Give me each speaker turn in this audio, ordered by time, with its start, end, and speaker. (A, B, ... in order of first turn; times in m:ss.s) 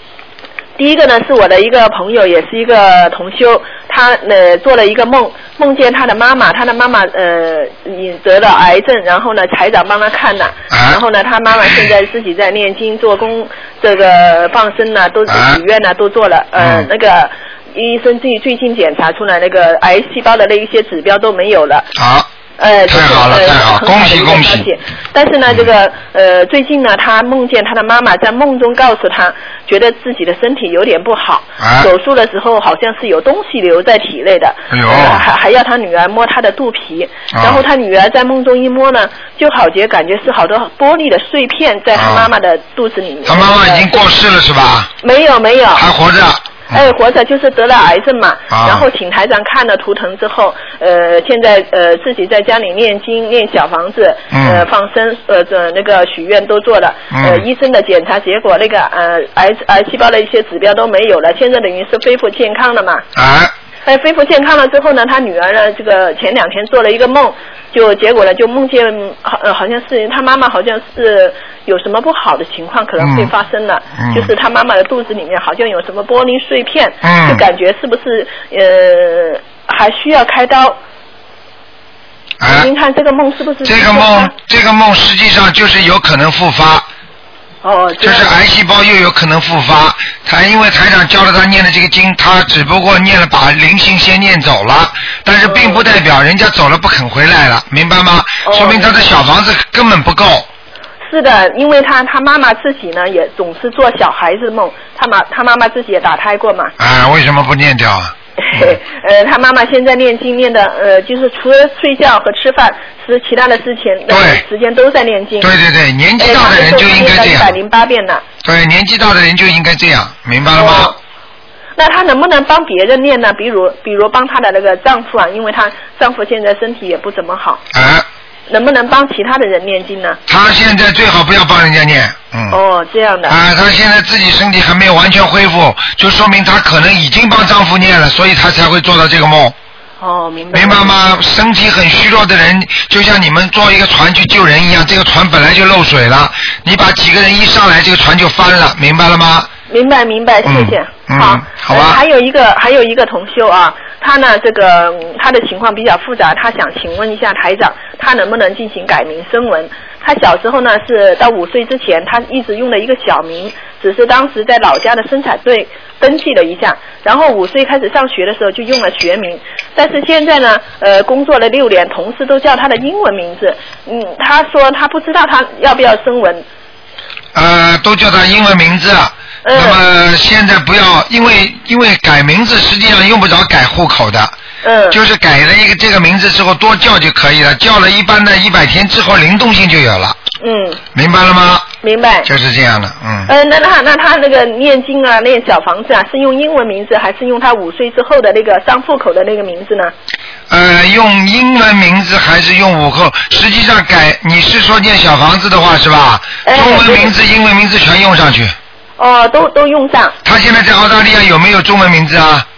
0:00.8-0:21.9 A
0:10.7-0:11.0 B
0:15.3-0:15.6 B
0:16.6-0:16.9 B
0:22.0-0:22.3 B
0:22.6-0:44.0 A
0:22.9-0:24.7 B
0:31.6-0:31.9 B
0:34.7-0:35.3 B
0:37.3-0:37.6 B
0:41.9-0:42.3 B
0:43.2-0:44.9 B
0:45.0-0:45.8 A
0:45.7-0:46.9 B
0:46.7-1:03.1 A
0:48.5-0:48.8 B
0:54.3-0:54.7 B
0:57.1-0:57.4 B
1:03.2-1:03.5 B
1:03.8-1:20.8 A
1:13.0-1:13.3 B
1:14.0-1:14.3 B
1:17.0-1:17.4 B
1:22.4-1:22.7 B
1:22.4-1:24.3 A
1:23.6-1:26.8 B
1:27.6-1:28.3 A
1:28.0-1:40.5 B
1:35.4-1:35.8 A
1:38.4-1:39.0 A
1:41.1-1:46.7 A
1:46.8-1:48.8 B
1:48.4-1:55.5 A
1:54.1-1:54.4 B
1:55.4-1:57.6 B
1:56.2-1:58.2 A
1:58.4-2:00.9 B
2:00.5-2:01.0 A
2:01.8-2:07.6 A
2:07.7-2:08.0 B
2:08.5-2:10.2 A
2:10.3-2:12.6 B
2:12.5-2:13.4 A
2:13.3-2:19.5 B
2:20.0-2:21.0 A
2:20.5-2:29.5 B
2:29.7-2:56.4 A
2:30.4-2:32.0 B
2:57.3-3:04.3 B
2:59.4-2:59.8 A
3:04.6-3:05.0 A
3:04.9-3:10.2 B
3:10.4-3:10.8 A
3:10.9-3:11.7 B
3:11.8-3:12.3 A
3:12.2-3:13.3 B
3:13.3-3:19.9 A
3:20.5-3:28.6 B
3:26.4-3:27.1 A
3:29.0-3:30.2 A
3:30.2-3:32.4 B